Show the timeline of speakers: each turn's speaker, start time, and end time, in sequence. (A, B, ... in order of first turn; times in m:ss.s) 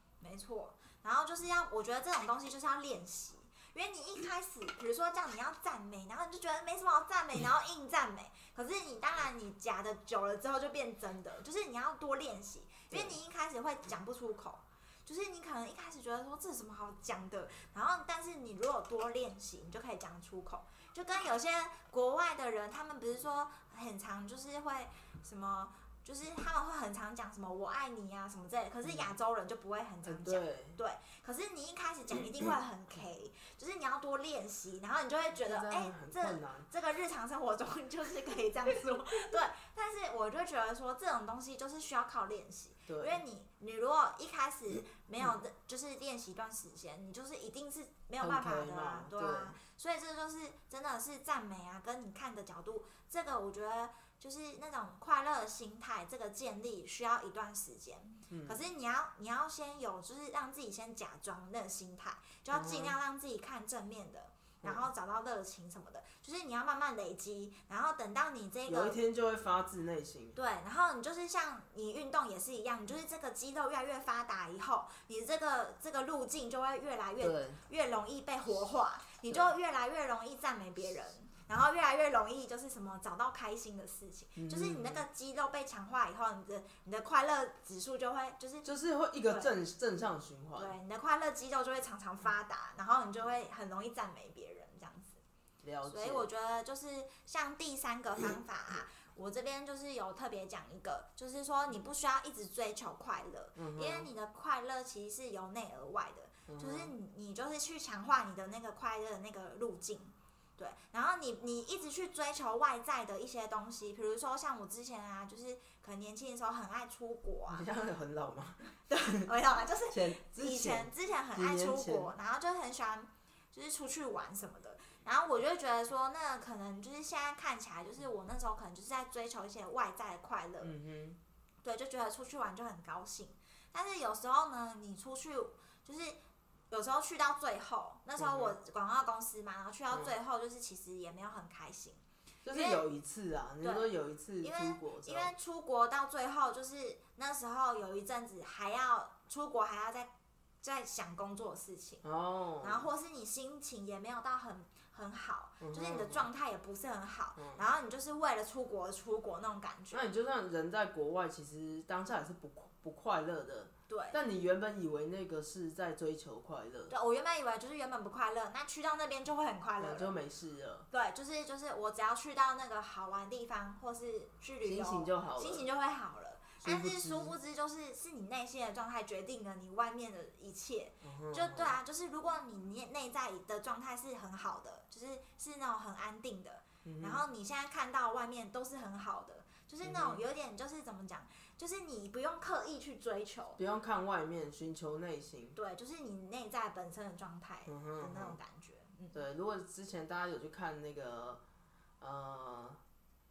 0:00.2-1:09.0 A
0:12.9-0:13.2 B
0:28.8-0:29.1 B
0:30.0-0:30.8 B
0:35.4-0:36.7 B
0:42.9-0:43.2 B
0:48.2-0:49.6 B
0:58.3-0:58.6 B
1:02.5-1:03.0 B
1:08.7-1:10.4 B
1:10.4-1:28.7 A
1:17.2-1:17.6 B
1:24.4-1:25.0 B
1:28.6-1:30.8 B
1:29.3-1:29.5 A
1:30.6-1:35.2 A
1:35.6-1:36.3 B
1:35.9-1:57.7 A
1:43.6-1:44.1 B
1:46.5-1:46.9 B
1:57.5-1:59.3 B
1:58.9-2:10.7 A
1:59.9-2:02.1 B
2:10.6-2:11.2 B
2:11.6-2:16.2 A
2:16.7-2:22.8 A
2:18.2-2:18.5 B
2:22.4-2:25.3 B
2:23.6-2:30.1 A
2:30.6-2:32.0 A
2:32.0-2:32.9 B
2:32.6-2:40.0 A
2:35.6-2:36.2 B
2:37.4-2:37.6 B
2:39.9-2:46.9 B
2:43.9-2:44.2 A
2:46.9-2:50.1 A
2:49.8-2:50.9 B
2:50.9-3:13.6 A
2:54.6-2:55.6 B
2:56.6-2:57.4 B
3:01.0-3:01.7 B
3:06.8-3:07.2 B
3:09.8-3:10.2 B
3:13.6-3:15.6 B
3:15.6-3:19.2 A
3:17.7-3:18.4 B
3:19.1-3:21.4 B
3:22.0-3:22.8 B